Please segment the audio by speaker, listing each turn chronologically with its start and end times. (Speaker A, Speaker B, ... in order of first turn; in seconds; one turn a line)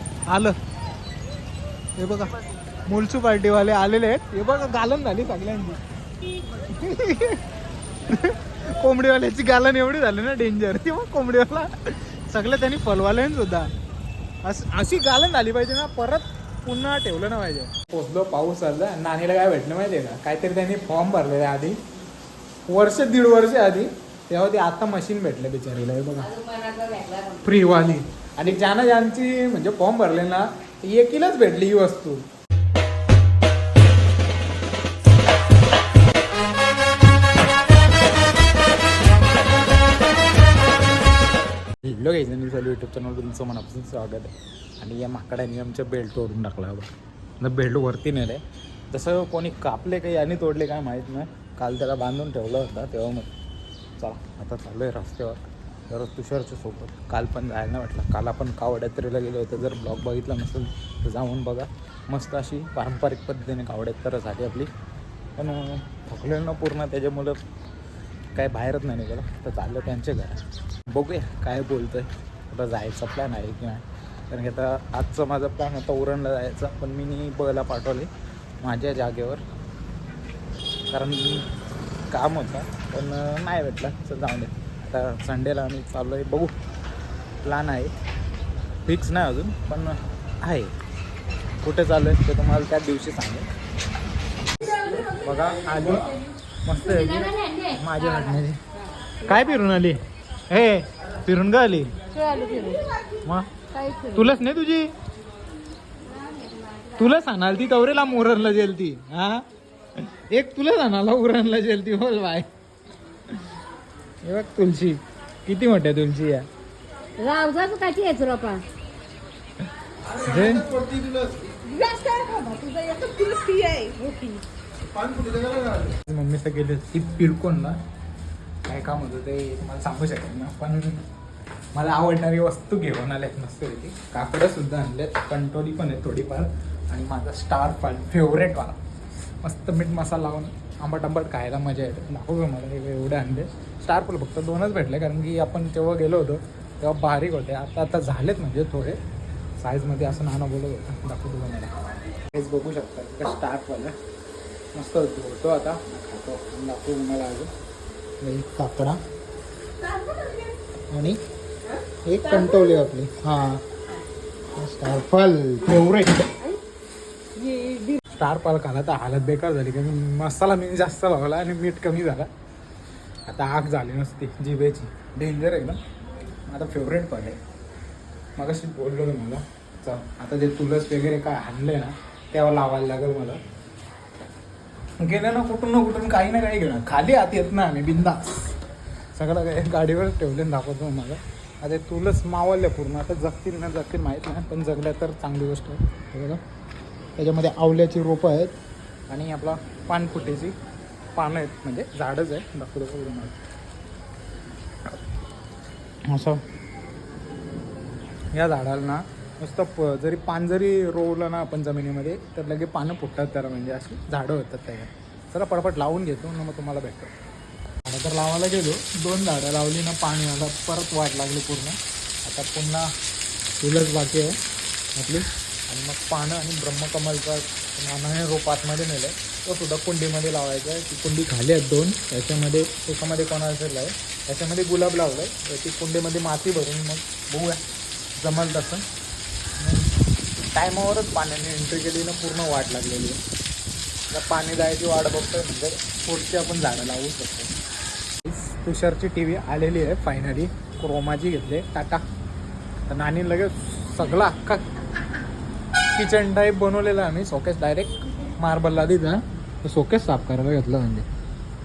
Speaker A: 0.3-0.6
Speaker A: 2.0-5.8
Speaker A: 6.6-7.4
Speaker A: 8.1-13.7
Speaker A: 14.4-21.8
Speaker A: 22.7-26.3
Speaker B: 26.2-27.6
Speaker A: 27.4-32.2
Speaker A: 41.8-53.3
Speaker A: 54.0-64.7
Speaker A: 65.4-67.4
Speaker A: 68.3-78.1
Speaker A: 78.6-79.4
Speaker A: 80.9-81.5
Speaker A: 82.1-86.5
Speaker A: 87.4-87.9
Speaker A: 88.8-90.7
Speaker A: 91.6-93.5
Speaker A: 94.6-98.6
Speaker B: 97.2-98.3
Speaker A: 99.2-101.9
Speaker B: 102.1-102.9
Speaker A: 103.2-104.9
Speaker B: 103.7-104.2
Speaker B: 106.2-106.5
Speaker A: 106.9-109.5
Speaker A: 110.0-112.5
Speaker A: 114.2-116.5
Speaker B: 117.2-118.6
Speaker A: 120.1-121.2
Speaker B: 121.6-124.4
Speaker A: 125.0-127.8
Speaker A: 128.7-131.0
Speaker A: 131.7-138.8
Speaker A: 139.4-149.0
Speaker A: 149.6-151.7
Speaker A: 152.3-153.9
Speaker A: 154.7-157.5
Speaker A: 158.2-159.0
Speaker A: 160.9-161.2
Speaker A: 162.0-163.6
Speaker A: 164.6-166.4
Speaker B: 167.3-168.0
Speaker A: 168.1-172.3
Speaker A: 173.3-175.8
Speaker A: 176.5-177.4
Speaker A: 178.4-183.4
Speaker A: 185.0-188.6
Speaker A: 189.1-196.4
Speaker A: 197.2-198.6
Speaker A: 199.1-200.5
Speaker A: 201.1-203.4
Speaker A: 206.1-206.4
Speaker A: 208.3-217.1
Speaker A: 217.8-222.9
Speaker A: 223.6-224.4
Speaker A: 224.9-237.6
Speaker A: 238.2-238.8
Speaker A: 239.6-239.9
Speaker A: 240.5-243.2
Speaker A: 244.1-247.5
Speaker A: 248.2-252.0
Speaker A: 252.9-254.7
Speaker A: 255.9-261.1